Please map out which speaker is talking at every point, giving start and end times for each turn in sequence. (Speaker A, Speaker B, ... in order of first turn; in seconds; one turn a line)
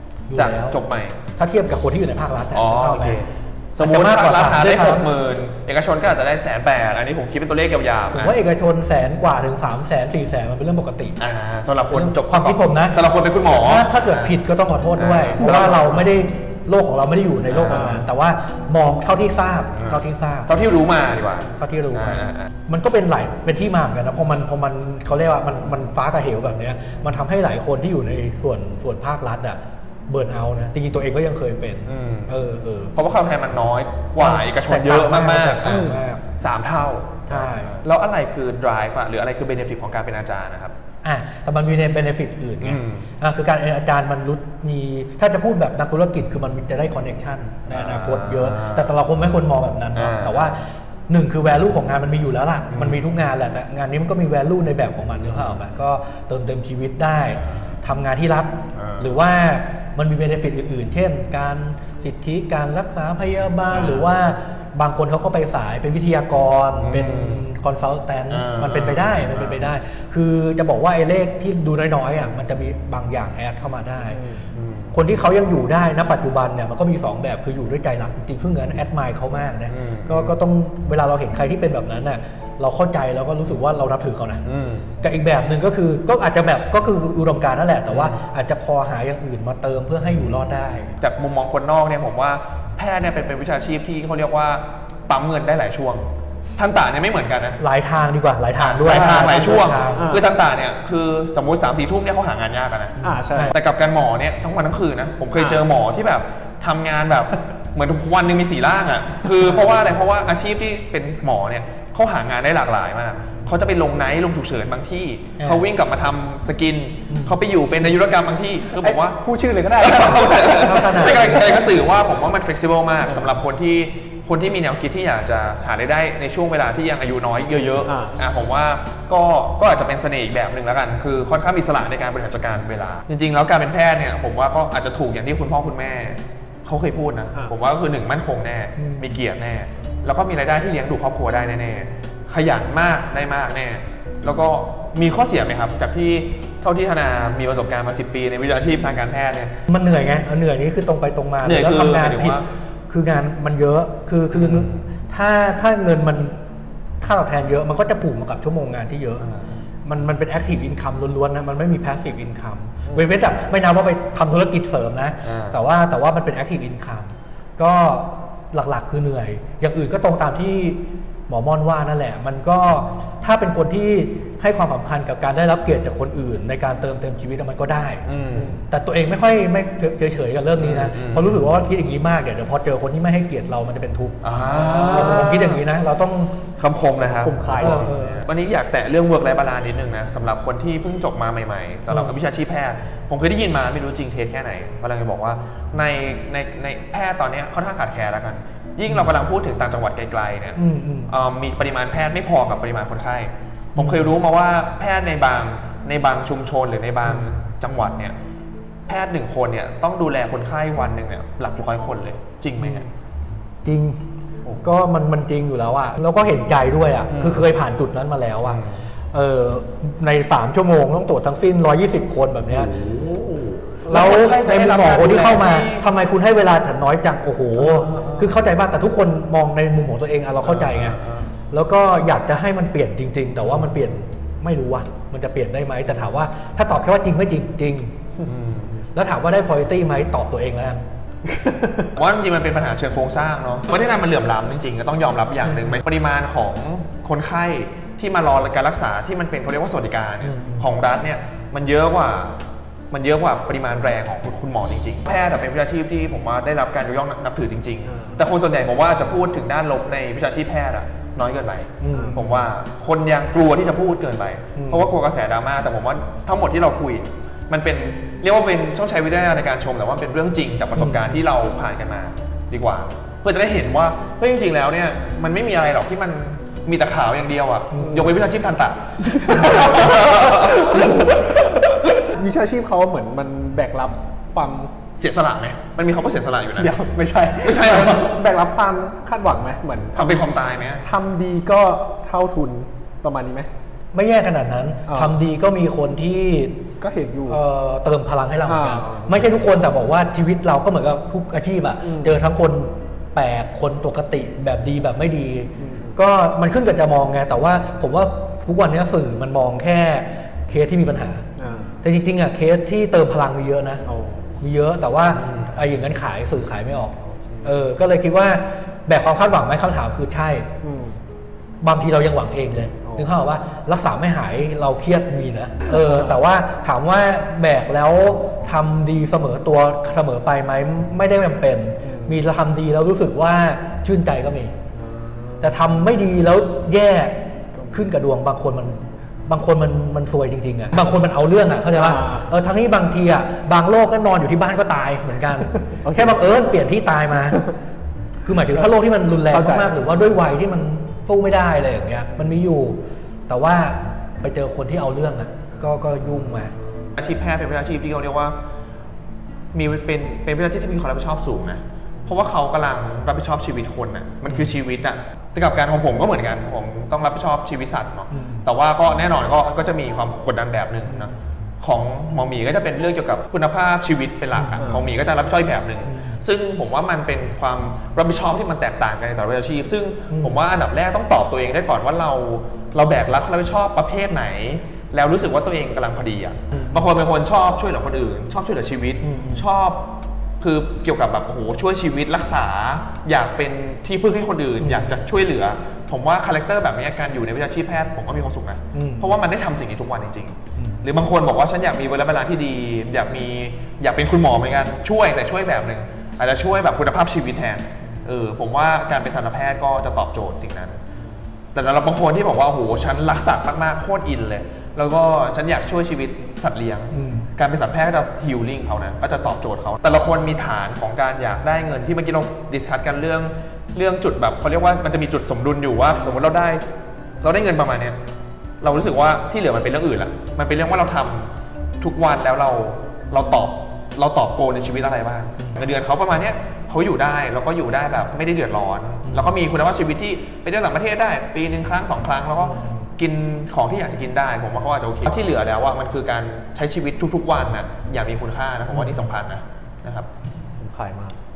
Speaker A: 0.3-0.8
Speaker B: 0.3-1.2
Speaker A: 1.4-3.3
Speaker B: 2.5-8.4
Speaker A: 3.8-5.1
Speaker A: 8.1-11.2
Speaker B: 11.2-14.3
Speaker A: 11.9-20.6
Speaker B: 15.0-16.1
Speaker C: 15.4-15.8
Speaker B: 17.5-18.0
Speaker C: 17.7-18.1
Speaker B: 19.7-22.5
Speaker A: 21.6-32.9
Speaker B: 31.9-32.3
Speaker B: 32.9-40.7
Speaker A: 34.2-36.2
Speaker C: 35.6-36.0
Speaker A: 37.3-37.8
Speaker A: 41.0-74.2
Speaker B: 42.6-43.1
Speaker B: 47.7-48.9
Speaker B: 50.0-50.5
Speaker B: 52.7-53.0
Speaker B: 55.3-55.6
Speaker B: 58.8-59.1
Speaker C: 63.7-64.0
Speaker B: 66.8-67.5
Speaker B: 68.3-69.6
Speaker C: 74.0-74.5
Speaker B: 74.5-75.0
Speaker A: 74.9-84.4
Speaker B: 79.7-80.3
Speaker B: 84.5-85.0
Speaker A: 85.0-91.0
Speaker B: 87.9-88.2
Speaker B: 91.0-97.6
Speaker A: 97.6-100.1
Speaker B: 98.6-103.0
Speaker C: 99.0-100.3
Speaker A: 103.0-103.5
Speaker C: 103.0-103.5
Speaker B: 103.5-119.2
Speaker C: 105.3-105.6
Speaker A: 109.5-109.8
Speaker A: 115.4-115.7
Speaker A: 117.1-117.3
Speaker C: 118.8-121.7
Speaker B: 119.7-149.5
Speaker A: 120.5-121.6
Speaker C: 127.8-128.2
Speaker A: 138.8-139.2
Speaker A: 149.7-156.4
Speaker B: 151.4-152.4
Speaker B: 154.3-154.8
Speaker A: 157.0-159.3
Speaker B: 159.2-159.6
Speaker A: 159.8-186.4
Speaker B: 165.2-165.6
Speaker B: 178.1-178.6
Speaker B: 180.6-181.4
Speaker B: 184.2-185.6
Speaker B: 186.6-208.2
Speaker C: 187.0-187.9
Speaker A: 187.5-188.2
Speaker A: 191.9-192.2
Speaker A: 198.9-199.1
Speaker A: 200.6-201.1
Speaker A: 203.8-204.2
Speaker A: 207.1-207.3
Speaker B: 208.9-212.9
Speaker A: 213.7-214.0
Speaker A: 214.6-218.6
Speaker B: 217.1-217.5
Speaker B: 218.4-218.8
Speaker A: 219.1-222.7
Speaker B: 222.5-225.9
Speaker A: 223.9-231.0
Speaker B: 227.6-228.3
Speaker B: 230.4-231.3
Speaker A: 231.5-237.9
Speaker B: 238.2-238.9
Speaker A: 238.9-240.8
Speaker C: 241.3-241.9
Speaker B: 241.9-252.4
Speaker A: 250.2-250.7
Speaker B: 252.9-281.6
Speaker C: 257.9-258.2
Speaker A: 261.8-262.2
Speaker C: 261.9-262.4
Speaker A: 264.6-264.9
Speaker A: 270.8-271.2
Speaker A: 277.7-278.1
Speaker C: 277.8-278.1
Speaker C: 279.1-284.7
Speaker A: 279.4-279.7
Speaker B: 285.0-286.8
Speaker C: 286.5-293.5
Speaker B: 287.4-288.2
Speaker B: 289.9-290.9
Speaker A: 293.9-296.6
Speaker C: 294.9-295.2
Speaker C: 296.8-297.4
Speaker A: 297.3-311.2
Speaker C: 298.5-299.3
Speaker C: 301.8-302.2
Speaker C: 305.6-306.0
Speaker C: 311.4-311.8
Speaker A: 311.8-313.8
Speaker C: 313.9-314.4
Speaker A: 314.4-320.5
Speaker C: 317.0-317.6
Speaker C: 320.6-321.0
Speaker A: 321.6-334.6
Speaker C: 322.8-323.1
Speaker C: 325.7-326.1
Speaker C: 331.8-332.2
Speaker C: 334.7-335.7
Speaker A: 335.4-347.4
Speaker C: 337.6-337.9
Speaker C: 341.7-342.3
Speaker C: 345.7-346.2
Speaker A: 348.2-356.5
Speaker C: 349.3-349.8
Speaker B: 357.0-358.4
Speaker B: 359.5-389.9
Speaker A: 364.3-364.5
Speaker A: 368.1-368.5
Speaker A: 374.3-374.8
Speaker A: 375.9-376.2
Speaker A: 380.1-380.4
Speaker A: 386.5-386.9
Speaker A: 389.0-389.5
Speaker B: 390.4-410.8
Speaker A: 394.6-395.0
Speaker A: 398.7-399.2
Speaker A: 400.6-400.8
Speaker B: 411.5-426.6
Speaker A: 416.9-417.3
Speaker B: 427.2-428.0
Speaker B: 428.6-450.1
Speaker A: 439.0-439.4
Speaker A: 442.4-442.9
Speaker A: 448.7-449.1
Speaker C: 450.6-451.1